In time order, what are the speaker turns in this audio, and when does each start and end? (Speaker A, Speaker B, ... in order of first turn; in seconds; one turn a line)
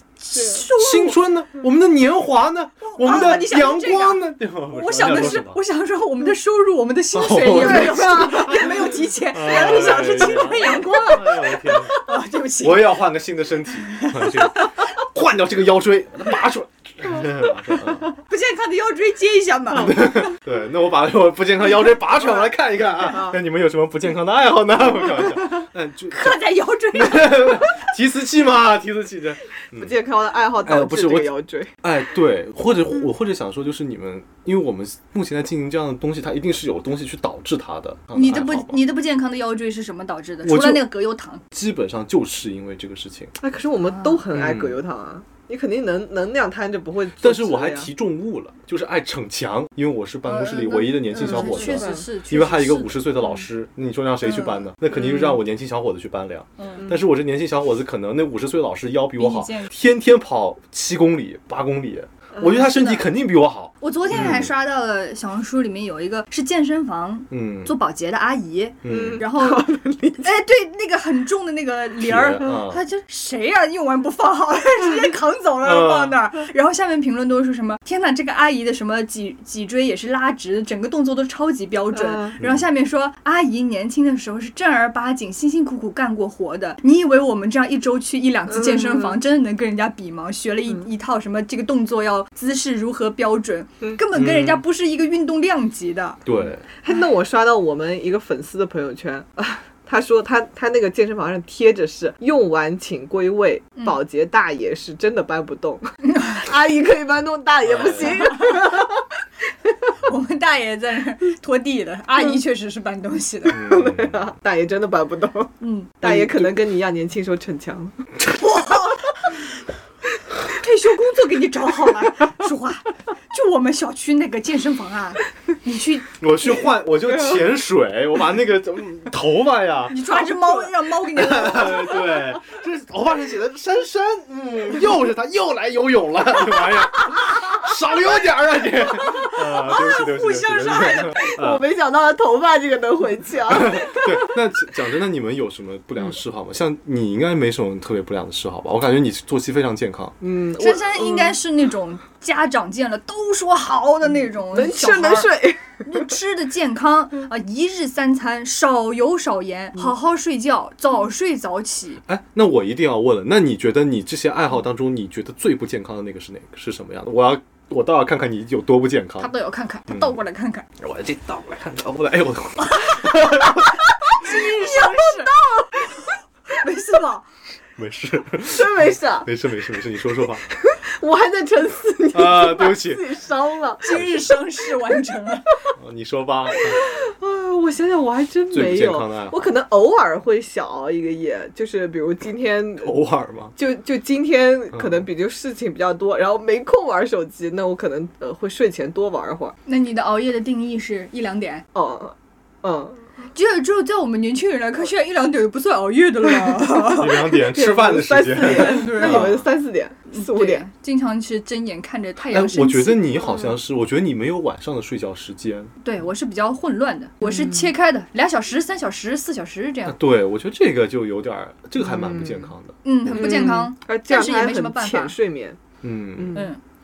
Speaker A: 0.2-1.2
Speaker B: 0.3-0.6
Speaker C: 0.8-5.6
Speaker A: 2.9-13.0
Speaker C: 7.1-12.0
Speaker B: 7.5-8.9
Speaker C: 12.6-18.1
Speaker A: 13.9-14.7
Speaker A: 18.2-20.0
Speaker C: 19.8-26.4
Speaker A: 26.1-27.9
Speaker C: 26.9-29.9
Speaker B: 29.8-31.8
Speaker C: 30.6-38.8
Speaker A: 38.1-41.4
Speaker C: 40.4-40.8
Speaker C: 41.5-43.3
Speaker B: 43.4-47.9
Speaker A: 43.9-44.2
Speaker C: 44.3-44.8
Speaker C: 47.2-64.5
Speaker A: 50.2-53.0
Speaker B: 51.1-52.0
Speaker A: 54.2-54.6
Speaker B: 55.0-55.3
Speaker A: 56.6-56.9
Speaker A: 59.2-59.7
Speaker A: 63.8-96.2
Speaker C: 67.3-67.7
Speaker C: 68.8-69.2
Speaker B: 68.9-70.3
Speaker C: 72.0-72.8
Speaker C: 75.6-76.2
Speaker B: 81.9-82.3
Speaker C: 82.4-82.6
Speaker B: 88.6-89.2
Speaker C: 94.1-94.6
Speaker C: 96.2-96.6
Speaker B: 96.8-109.0
Speaker A: 106.0-106.5
Speaker C: 107.6-108.3
Speaker A: 108.0-108.7
Speaker A: 110.0-113.6
Speaker B: 113.5-118.0
Speaker C: 113.5-114.3
Speaker A: 115.6-115.9
Speaker C: 116.0-116.5
Speaker A: 118.2-119.4
Speaker A: 120.4-126.1
Speaker C: 126.2-130.0
Speaker A: 129.9-132.1
Speaker C: 131.1-141.6
Speaker A: 139.2-141.3
Speaker B: 141.2-144.3
Speaker C: 143.5-150.2
Speaker B: 150.2-151.4
Speaker A: 150.6-162.0
Speaker B: 154.5-156.1
Speaker C: 162.1-169.3
Speaker A: 169.2-170.7
Speaker C: 169.9-170.2
Speaker C: 170.8-173.9
Speaker A: 174.1-177.2
Speaker B: 175.3-175.7
Speaker C: 177.8-180.4
Speaker B: 178.5-179.3
Speaker B: 180.5-183.9
Speaker C: 182.1-183.1
Speaker A: 183.8-185.5
Speaker C: 183.9-184.2
Speaker C: 185.8-186.8
Speaker B: 186.7-192.9
Speaker C: 188.5-189.5
Speaker C: 192.8-193.5
Speaker B: 193.6-199.6
Speaker C: 194.7-195.0
Speaker A: 199.7-201.6
Speaker B: 201.7-203.0
Speaker A: 203.3-207.3
Speaker C: 206.9-209.4
Speaker B: 207.4-210.7
Speaker A: 208.7-209.3
Speaker A: 210.1-213.2
Speaker C: 212.3-215.7
Speaker A: 215.8-220.0
Speaker C: 219.8-223.4
Speaker B: 221.9-222.5
Speaker A: 222.8-225.1
Speaker B: 223.1-225.6
Speaker C: 225.8-226.4
Speaker B: 226.2-226.4
Speaker A: 226.3-226.6